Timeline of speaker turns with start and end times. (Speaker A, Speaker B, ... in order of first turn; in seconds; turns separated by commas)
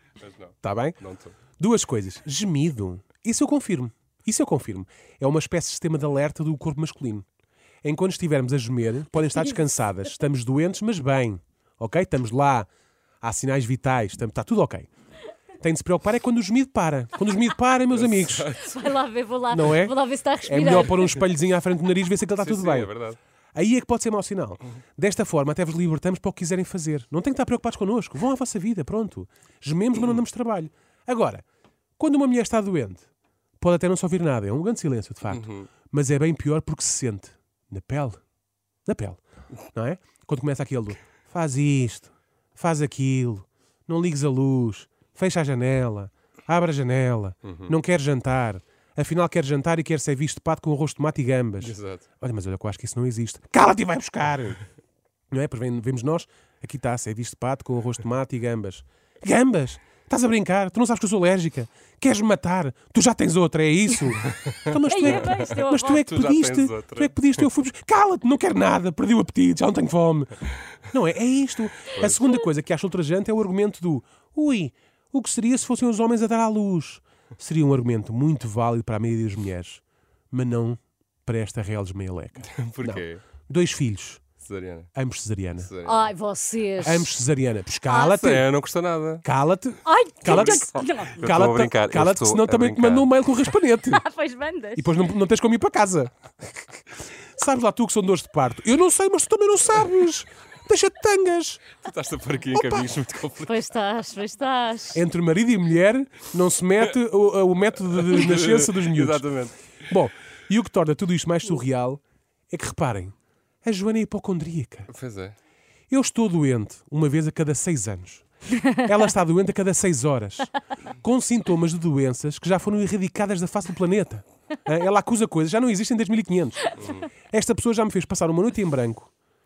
Speaker A: 0.2-1.3, Speaker B: 0.6-1.0, Speaker B: 1.6-7.2, Speaker B: 7.8-12.7, Speaker B: 13.2-14.9, Speaker B: 15.6-18.5, Speaker A: 17.9-18.9, Speaker C: 18.5-21.2, Speaker B: 19.5-22.9, Speaker A: 22.4-23.2, Speaker B: 23.5-31.4, Speaker B: 32.0-33.1, Speaker B: 33.6-38.2, Speaker A: 35.3-35.7, Speaker B: 38.9-54.6, Speaker A: 47.4-47.7, Speaker A: 51.6-52.1, Speaker B: 55.3-84.2, Speaker C: 64.9-66.0, Speaker A: 65.0-67.4, Speaker A: 82.5-83.2, Speaker A: 84.4-84.9, Speaker B: 84.9-85.7, Speaker A: 85.6-86.1, Speaker C: 85.8-87.1, Speaker B: 86.8-88.5, Speaker C: 87.9-88.2, Speaker A: 88.1-89.2, Speaker B: 89.2-94.0, Speaker C: 89.8-91.2, Speaker A: 90.2-93.3, Speaker C: 93.8-95.0, Speaker B: 94.8-96.1, Speaker B: 97.2-101.7, Speaker A: 101.8-103.6, Speaker B: 102.5-102.9, Speaker C: 103.4-105.0, Speaker B: 104.9-109.2, Speaker A: 108.0-109.7, Speaker B: 109.8-114.9, Speaker A: 114.9-115.3, Speaker B: 115.9-118.2, Speaker B: 118.8-129.1, Speaker A: 126.8-127.1